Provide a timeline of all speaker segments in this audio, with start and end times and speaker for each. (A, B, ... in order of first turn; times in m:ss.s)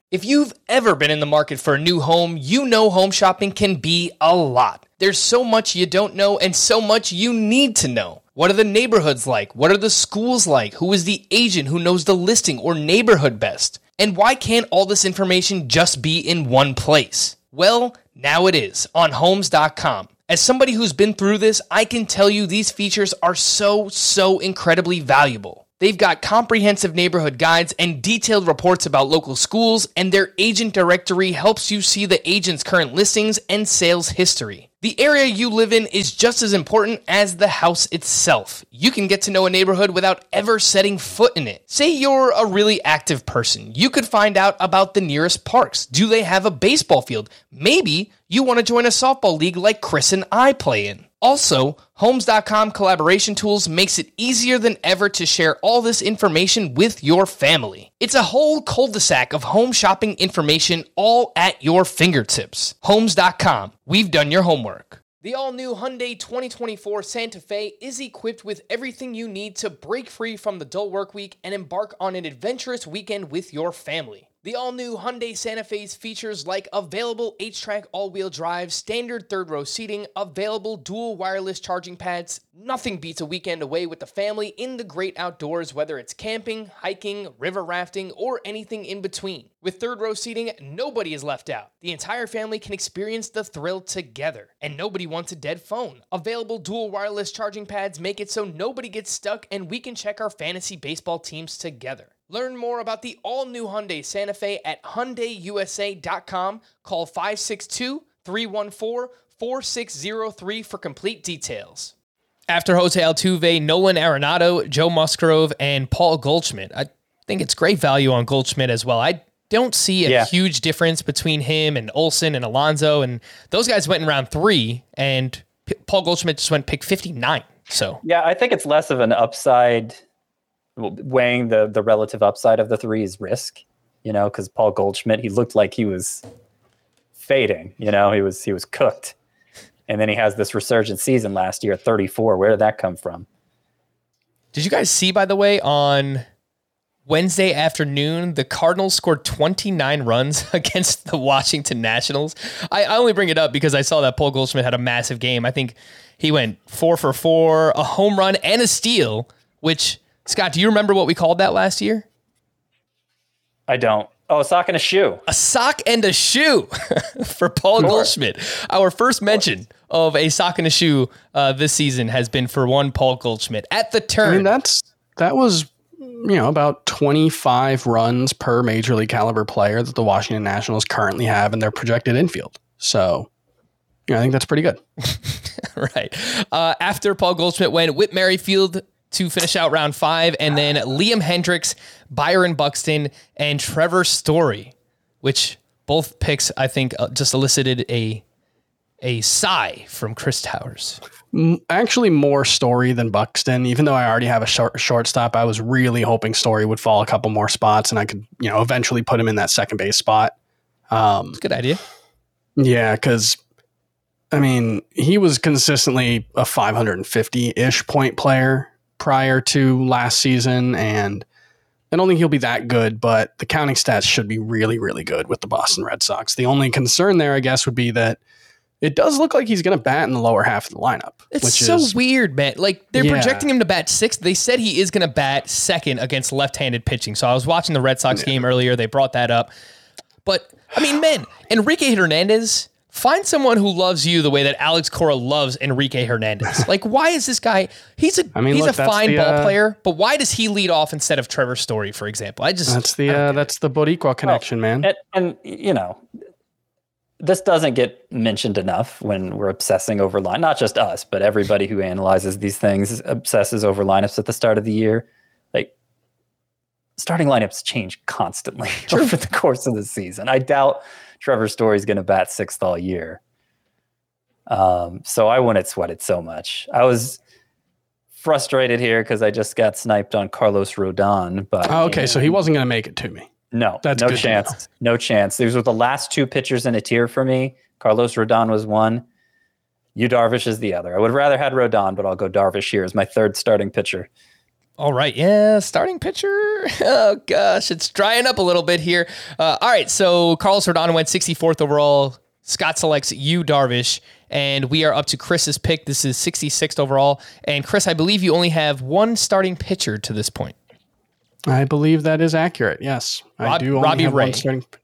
0:00.1-1:51.9 A
1:52.5-2:08.0 A
2:08.0-2:10.0 B
2:10.8-2:16.2 B
2:17.2-2:19.1 B
2:19.9-2:23.2 B
2:24.5-2:26.2 A
2:27.1-2:42.0 A
2:43.7-2:45.2 B
2:45.3-2:54.5 A
2:47.8-2:48.1 B
2:54.2-3:03.3 C
3:04.1-3:04.8 C
3:05.1-3:18.2 A
3:19.0-3:21.0 A
3:21.3-3:30.3 C
3:30.9-3:31.4 C
3:31.4-3:31.8 A
3:32.6-3:33.4 C
3:34.3-3:41.2 C
3:41.9-3:48.2 C
3:48.8-3:51.9 C
3:51.3-3:59.5 A
3:53.0-3:53.5 C
4:00.2-4:13.5 A
4:08.3-4:09.5 C
4:12.7-4:14.9 C
4:14.2-4:16.0 B
4:17.2-4:25.7 B
4:27.0-4:33.2 B
4:34.5-4:37.2 B
4:38.1-4:42.4 B
4:41.6-4:43.3 C
4:43.5-4:49.0 B
4:43.8-4:44.5 C
4:50.0-4:54.1 B
4:54.8-5:10.5 A
5:11.5-5:14.7 C
5:13.4-5:14.5 A